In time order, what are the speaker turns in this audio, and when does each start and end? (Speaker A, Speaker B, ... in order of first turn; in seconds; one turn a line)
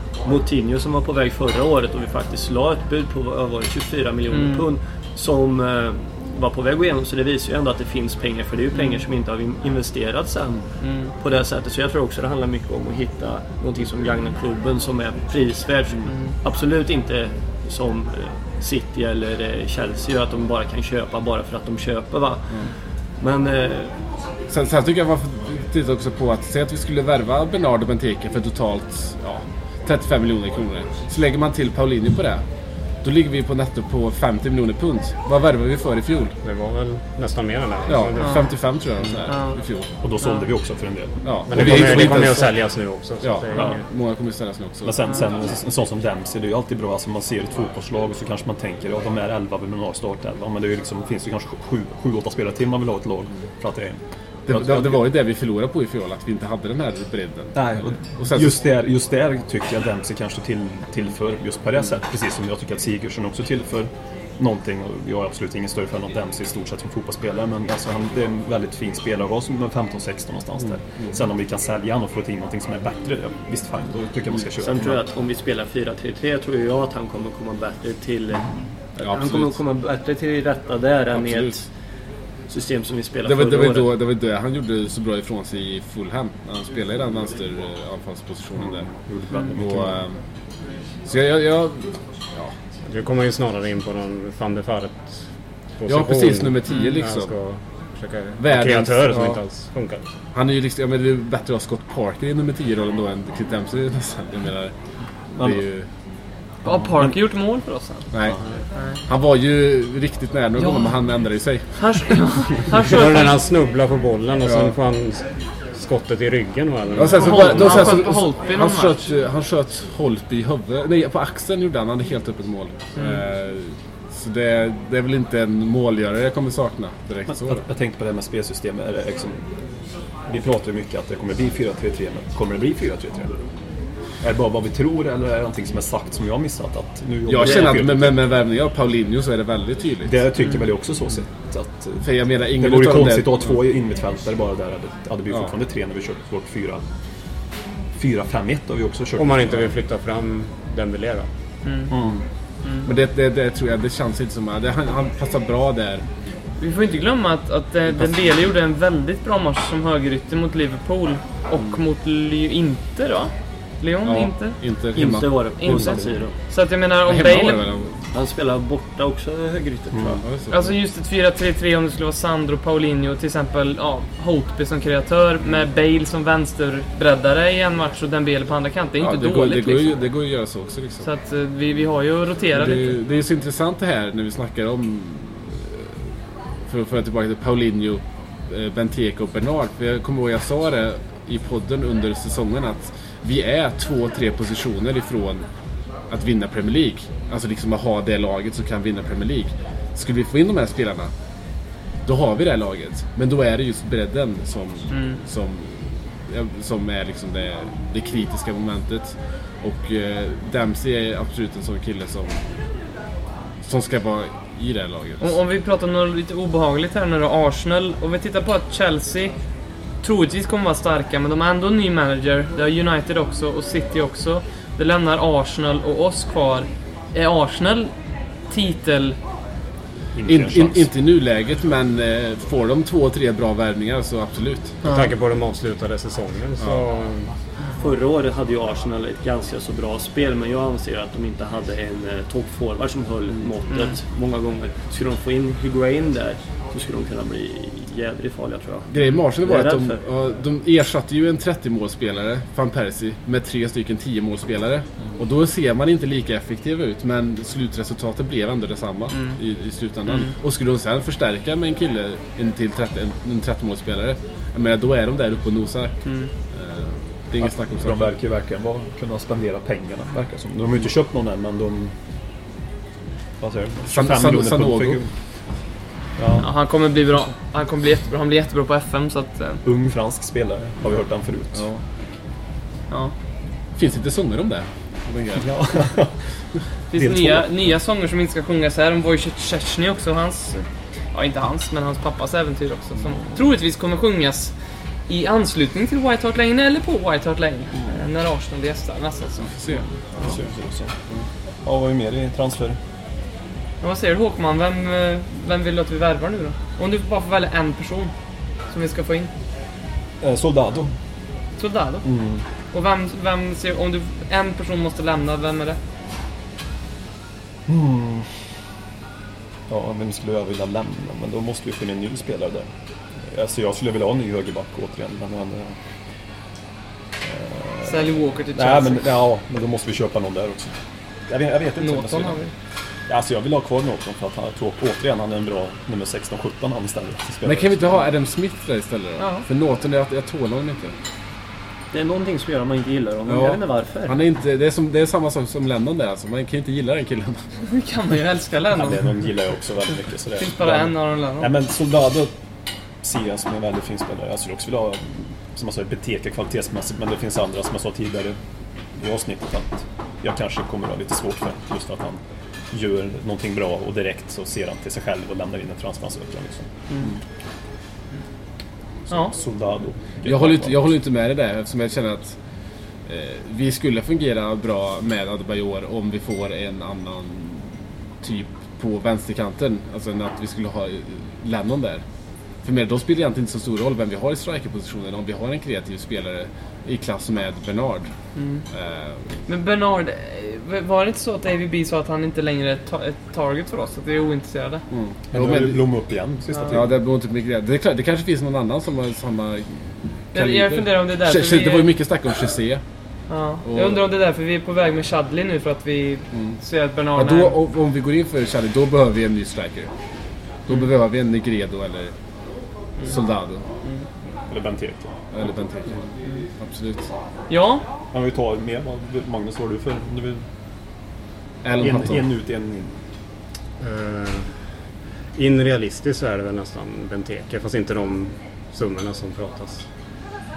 Speaker A: 0.2-22.7
Speaker B: 4.3-4.7
Speaker B: 8.8-9.0
Speaker B: 10.8-11.1
Speaker B: 16.1-16.3
Speaker A: 23.2-23.9
Speaker C: 24.5-32.4
Speaker C: 33.0-36.4
Speaker D: 36.4-38.4
Speaker C: 37.9-39.9
Speaker B: 38.2-38.5
Speaker B: 39.3-39.6
Speaker E: 40.0-42.3
Speaker B: 40.2-40.5
Speaker C: 41.2-45.1
Speaker D: 41.5-43.8
Speaker E: 43.5-43.8
Speaker E: 44.8-55.0
Speaker C: 54.5-58.6
Speaker E: 57.5-75.0
Speaker A: 74.6-81.7
Speaker C: 79.0-79.6
Speaker C: 81.1-81.6
Speaker A: 82.5-83.9
Speaker C: 83.3-88.9
Speaker E: 88.6-90.1
Speaker C: 89.5-90.1
Speaker C: 91.1-92.5
Speaker D: 92.8-95.3
Speaker D: 95.8-100.0
Speaker C: 95.9-97.3
Speaker B: 96.7-96.9
Speaker C: 98.4-99.4
Speaker C: 100.3-104.8
Speaker C: 105.4-105.9
Speaker B: 106.7-108.1
Speaker C: 108.1-108.4
Speaker B: 108.8-109.0
Speaker C: 109.0-112.2
Speaker B: 110.6-110.9
Speaker B: 111.8-113.2
Speaker D: 112.9-118.0
Speaker C: 114.5-114.7
Speaker C: 117.0-127.7
Speaker B: 117.2-119.0
Speaker B: 123.0-123.2
Speaker E: 127.3-129.5
Speaker E: 130.3-133.4
Speaker E: 134.2-138.2
Speaker C: 137.3-140.2
Speaker A: 137.4-137.7
Speaker E: 140.0-146.8
Speaker C: 142.0-143.6
Speaker E: 148.0-149.6
Speaker D: 149.2-151.3
Speaker B: 151.7-151.9
Speaker E: 151.9-152.2
Speaker C: 152.8-156.1
Speaker B: 156.6-164.6
Speaker C: 157.9-158.3
Speaker C: 161.6-161.8
Speaker C: 164.0-166.2
Speaker A: 164.9-166.3
Speaker B: 165.6-167.7
Speaker C: 167.1-168.0
Speaker A: 168.1-170.2
Speaker E: 169.9-170.2
Speaker C: 170.2-170.8
Speaker B: 170.5-180.0
Speaker C: 179.0-181.1
Speaker B: 181.0-183.0
Speaker C: 182.5-185.9
Speaker C: 186.7-195.5
Speaker C: 196.1-201.1
Speaker C: 202.1-212.4
Speaker B: 204.9-205.2
Speaker C: 213.6-215.3
Speaker B: 215.2-219.3
Speaker B: 220.0-227.9
Speaker B: 228.5-229.2
Speaker E: 230.2-230.9
Speaker C: 230.3-234.8
Speaker B: 234.8-235.1
Speaker D: 234.8-237.3
Speaker C: 236.6-236.8
Speaker A: 237.8-248.9
Speaker C: 248.9-268.2
Speaker A: 249.4-250.0
Speaker B: 259.1-259.4
Speaker B: 260.1-260.3
Speaker B: 266.1-266.3
Speaker E: 267.5-271.9
Speaker E: 273.4-275.1
Speaker C: 273.9-275.0
Speaker E: 276.2-276.5
Speaker B: 276.4-279.6
Speaker E: 279.6-281.7
Speaker C: 281.5-281.8
Speaker C: 283.8-285.9
Speaker E: 285.4-286.2
Speaker B: 286.9-294.5
Speaker E: 286.9-287.7
Speaker B: 295.1-299.8
Speaker E: 297.7-298.0
Speaker C: 299.4-300.5
Speaker E: 300.0-300.9
Speaker E: 301.6-302.8
Speaker B: 303.8-308.1
Speaker B: 308.7-309.3
Speaker E: 310.2-310.9
Speaker B: 311.6-312.1
Speaker E: 312.0-312.4
Speaker B: 312.7-315.8
Speaker E: 317.7-318.5
Speaker E: 319.7-322.7
Speaker E: 323.3-325.8
Speaker E: 327.2-332.4
Speaker B: 327.9-329.1
Speaker B: 331.8-332.5
Speaker E: 333.1-338.0
Speaker C: 337.4-340.9
Speaker B: 339.2-339.4
Speaker A: 341.9-344.2
Speaker C: 343.3-347.5
Speaker B: 347.7-349.2
Speaker E: 348.7-352.3
Speaker B: 350.4-351.5
Speaker E: 353.0-358.4
Speaker E: 358.9-367.2
Speaker E: 369.1-370.9
Speaker B: 369.1-369.4
Speaker C: 370.2-372.4
Speaker C: 373.1-382.0
Speaker C: 382.6-388.1
Speaker B: 388.4-388.7
Speaker C: 388.7-389.3
Speaker B: 389.5-394.9
Speaker E: 394.9-397.0
Speaker C: 395.3-395.9
Speaker C: 396.7-402.8
Speaker B: 400.3-401.9
Speaker B: 403.3-407.6
Speaker C: 403.6-404.0
Speaker C: 406.3-406.6
Speaker C: 407.1-409.9
Speaker C: 410.7-412.1
Speaker C: 413.0-413.7
Speaker E: 414.5-415.1
Speaker C: 415.3-416.1
Speaker C: 416.6-417.1
Speaker B: 417.5-417.9
Speaker E: 418.1-420.4
Speaker C: 421.6-422.3
Speaker E: 421.8-423.0
Speaker D: 423.8-424.6
Speaker D: 425.4-429.9